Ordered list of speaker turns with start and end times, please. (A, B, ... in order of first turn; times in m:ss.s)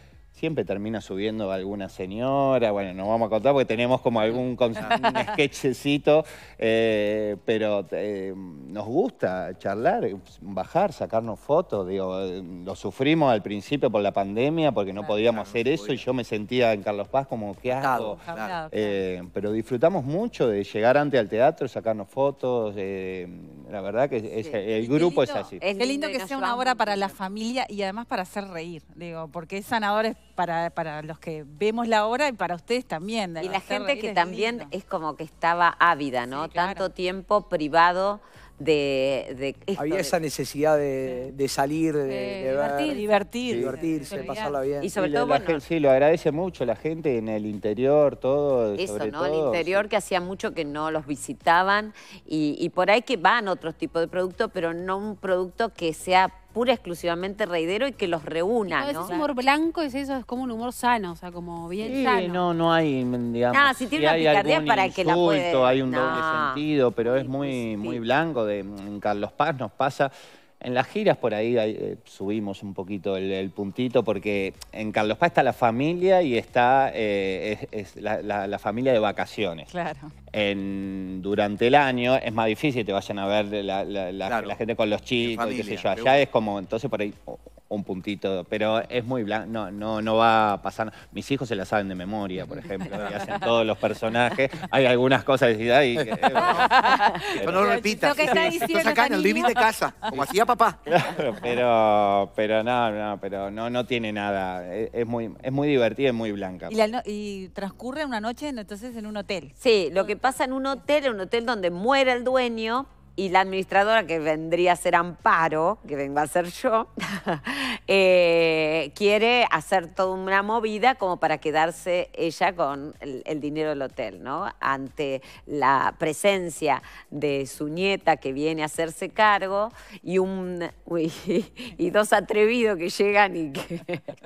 0:00.3-0:25.6 A
0:04.8-0:05.1 B
0:15.3-0:16.0 B
0:17.6-0:18.6 B
0:18.2-0:19.0 C
0:24.3-0:24.6 D
0:24.8-0:34.7 C
0:25.6-0:27.2 D
0:33.4-0:40.2 D
0:36.3-0:36.9 C
0:39.8-0:43.0 E
0:42.1-0:43.3 F
0:42.5-0:44.6 C
0:43.4-0:43.8 A
0:43.5-0:44.9 E
0:44.8-0:45.6 D
0:44.9-0:49.8 A
0:48.8-0:59.1 D
0:58.7-1:02.4 F
0:58.8-0:59.3 C
1:01.8-1:19.7 A
1:03.5-1:08.0 D
1:19.7-1:20.1 C
1:20.3-1:36.7 A
1:24.2-1:24.6 B
1:25.2-1:26.2 B
1:36.3-1:40.2 C
1:36.4-1:36.7 B
1:37.3-1:37.7 A
1:37.3-1:40.8 B
1:40.9-1:46.8 A
1:46.7-1:50.2 C
1:49.6-2:14.1 D